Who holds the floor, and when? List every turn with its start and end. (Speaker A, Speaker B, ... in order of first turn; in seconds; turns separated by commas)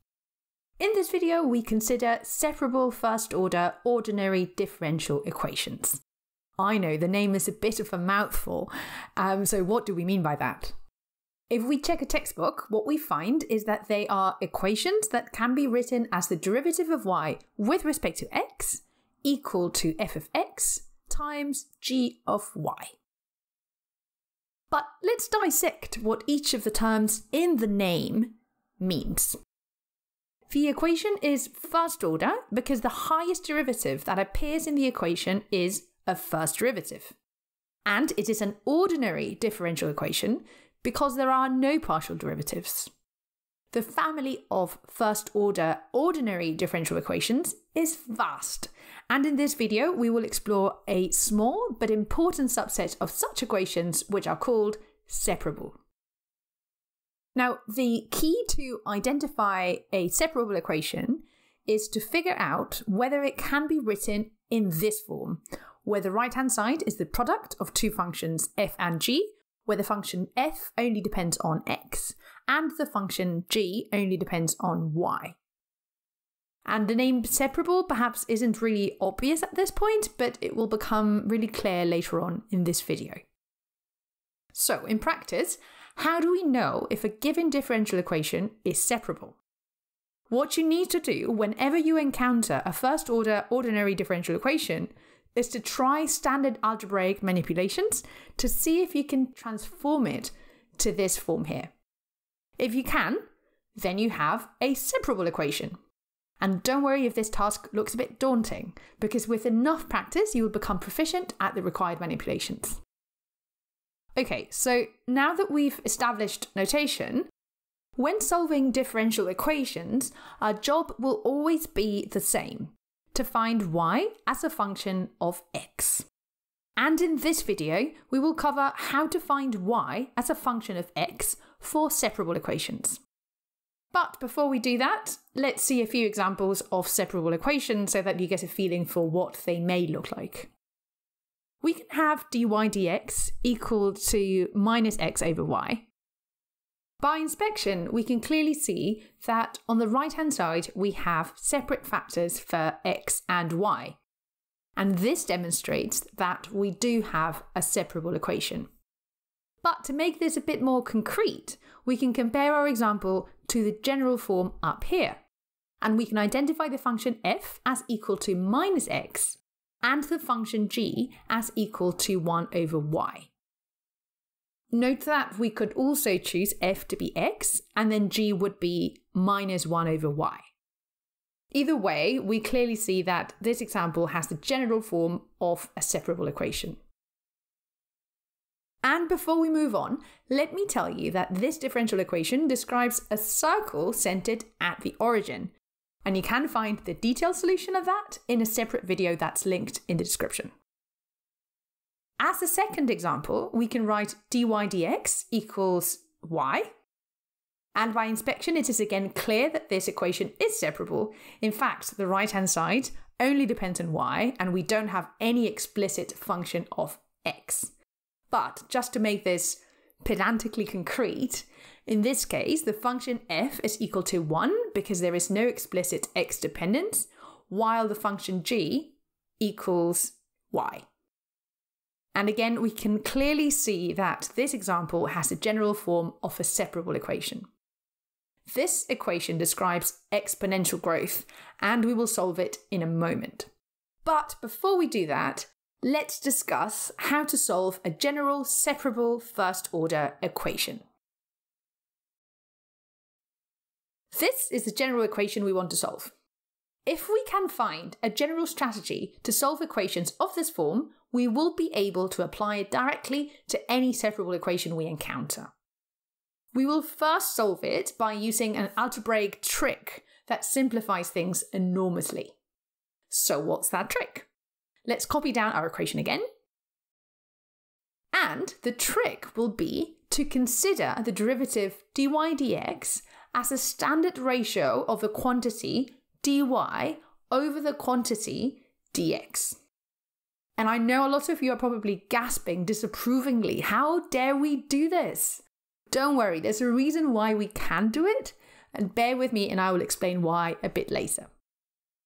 Speaker A: 0.8-6.0, Speaker A: 6.6-10.7, Speaker A: 11.5-22.9, Speaker A: 24.7-29.4, Speaker A: 30.5-37.1, Speaker A: 37.9-42.9, Speaker A: 43.7-55.8, Speaker A: 57.4-75.4, Speaker A: 76.7-83.2, Speaker A: 84.5-89.4, Speaker A: 90.3-101.7, Speaker A: 102.6-103.2, Speaker A: 103.8-105.8, Speaker A: 106.4-112.8, Speaker A: 114.2-117.3, Speaker A: 118.0-126.0, Speaker A: 126.8-133.0, Speaker A: 133.9-140.5, Speaker A: 141.6-145.9, Speaker A: 147.0-154.0, Speaker A: 154.8-158.7, Speaker A: 159.6-165.2, Speaker A: 165.8-173.3, Speaker A: 174.7-180.4, Speaker A: 181.5-186.8, Speaker A: 188.8-195.5, Speaker A: 196.0-200.5, Speaker A: 202.2-206.7, Speaker A: 207.7-217.7, Speaker A: 218.3-230.8, Speaker A: 232.1-237.4, Speaker A: 238.5-243.5, Speaker A: 244.0-250.8, Speaker A: 254.1-256.1, Speaker A: 256.9-265.5, Speaker A: 266.5-272.3, Speaker A: 273.1-274.3, Speaker A: 274.9-276.2, Speaker A: 278.1-289.6, Speaker A: 290.6-301.3